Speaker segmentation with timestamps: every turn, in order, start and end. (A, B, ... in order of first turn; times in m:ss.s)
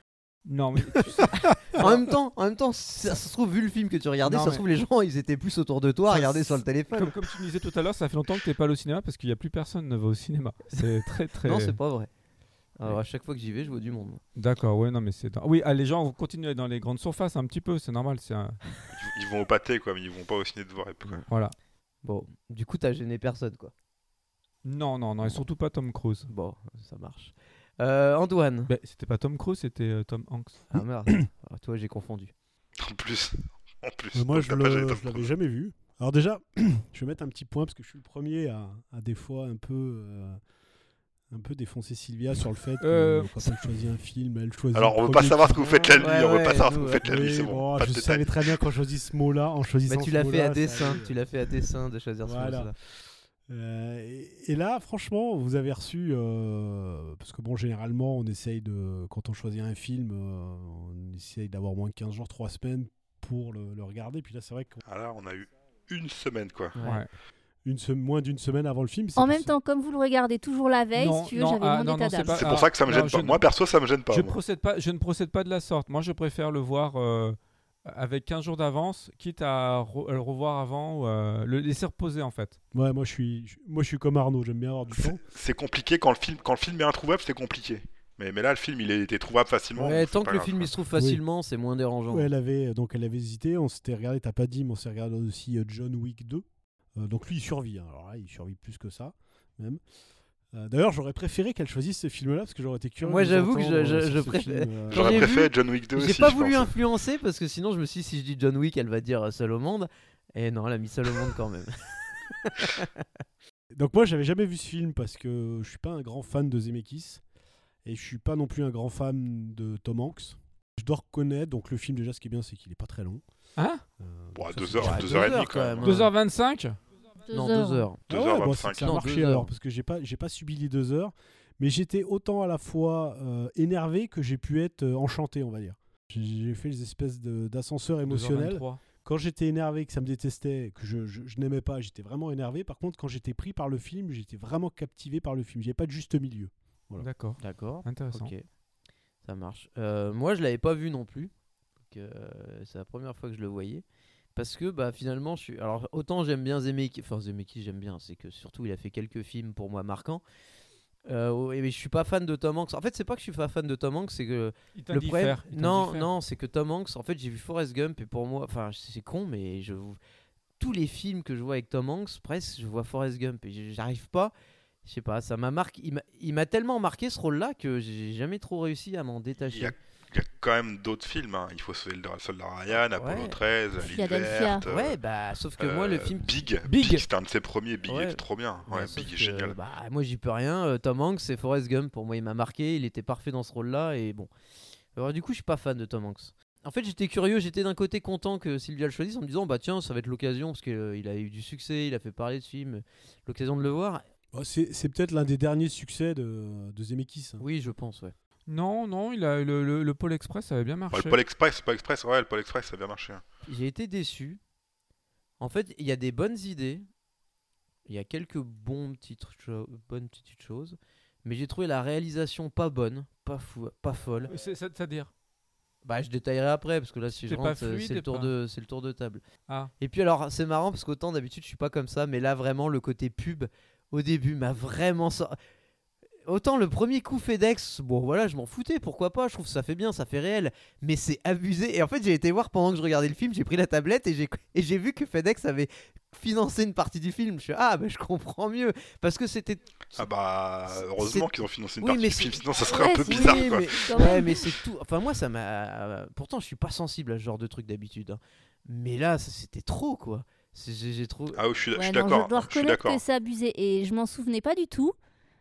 0:00.4-0:01.9 A
0:01.8-0:07.1 B
0:04.3-0:04.6 C
0:06.1-0:11.8 A
0:11.4-0:12.1 B
0:12.8-0:14.2 B
0:14.3-0:18.6 A
0:18.9-0:21.2 D
0:21.3-0:21.5 A
0:22.0-0:23.7 B
0:24.6-0:26.3 A
0:26.3-0:28.7 B
0:28.7-0:30.7 A
0:30.7-0:32.3 B
0:32.8-0:35.3 D
0:34.1-0:40.4 C
0:41.3-0:45.9 C
0:42.8-0:43.5 A
0:44.7-0:48.5 D
0:45.6-0:47.0 B
0:47.0-0:51.1 C
0:49.8-0:52.7 B
0:52.2-0:52.7 C
0:53.5-1:04.8 C
1:04.8-1:06.7 D
1:06.7-1:07.0 B
1:06.8-1:07.1 A
1:07.6-1:09.5 C
1:09.2-1:12.5 E
1:10.9-1:13.4 A
1:12.3-1:14.4 D
1:14.1-1:22.6 A
1:22.7-1:25.2 C
1:25.0-1:30.8 D
1:29.8-1:32.3 B
1:30.9-1:31.2 C
1:32.1-1:36.4 C
1:37.0-1:39.8 C
1:40.5-1:45.3 C
1:43.0-1:53.0 B
1:44.9-1:46.7 D
1:53.7-1:57.2 C
1:57.8-2:03.2 C
2:03.6-2:03.8 A
2:04.0-2:05.4 C
2:04.3-2:06.1 D
2:04.8-2:06.1 B
2:05.8-2:06.8 A
2:07.3-2:07.8 E
2:07.3-2:08.0 B
2:08.1-2:27.1 C
2:08.1-2:09.0 D
2:08.8-2:09.5 B
2:18.0-2:18.8 A
2:27.0-2:28.3 A
2:27.4-2:28.4 B
2:29.2-2:31.3 B
2:31.9-2:33.8 B
2:34.4-2:40.2 B
2:41.1-2:50.0 B
2:44.8-2:46.1 A
2:50.6-2:54.3 B
2:54.8-2:59.7 B
2:59.4-3:05.0 D
3:03.0-3:03.4 B
3:03.8-3:04.6 E
3:04.7-3:06.4 B
3:05.6-3:09.6 D
3:06.6-3:07.0 A
3:07.9-3:14.3 B
3:14.9-3:24.0 B
3:24.3-3:27.4 C
3:27.4-3:28.1 B
3:28.5-3:31.2 A
3:30.9-3:33.2 D
3:33.5-3:34.4 B
3:35.4-3:36.8 B
3:37.8-3:44.3 B
3:44.3-3:45.1 A
3:45.8-3:49.2 B
3:47.3-3:48.3 A
3:49.8-3:55.4 B
3:56.2-4:10.1 B
4:10.0-4:14.1 D
4:10.7-4:21.4 B
4:12.6-4:14.6 E
4:21.3-4:23.0 D
4:21.7-4:24.9 E